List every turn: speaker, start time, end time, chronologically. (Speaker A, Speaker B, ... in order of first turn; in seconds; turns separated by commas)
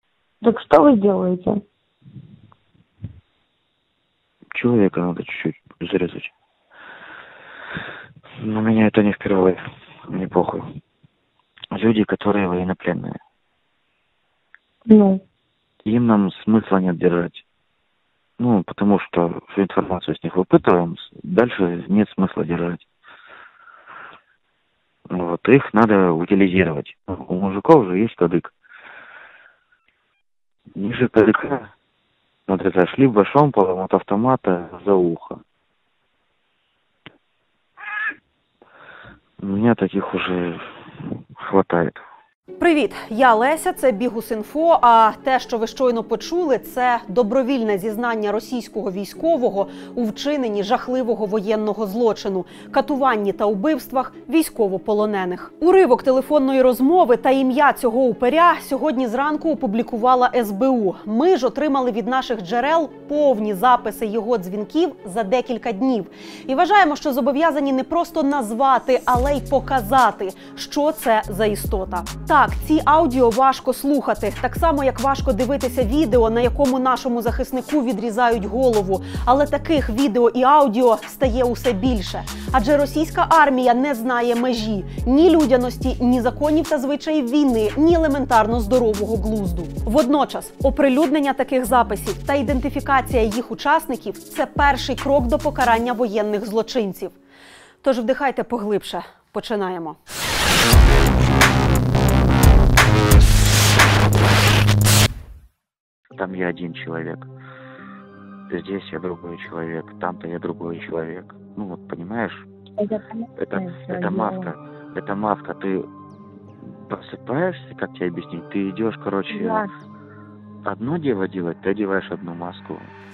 Speaker A: 0.4-1.6, Speaker B: 4.5-6.3, Speaker B: 8.4-10.7, Speaker B: 11.7-13.2, Speaker A: 14.9-15.2, Speaker B: 15.8-17.4, Speaker B: 18.4-22.8, Speaker B: 25.1-28.5, Speaker B: 30.8-31.7, Speaker B: 32.5-35.4, Speaker B: 39.4-40.7, Speaker B: 41.4-42.0, Speaker C: 42.6-97.2, Speaker C: 97.8-100.0, Speaker B: 106.2-107.3, Speaker B: 108.5-112.5, Speaker A: 112.8-114.5, Speaker B: 113.4-115.9, Speaker B: 116.6-119.7, Speaker A: 119.3-119.7, Speaker B: 120.7-122.9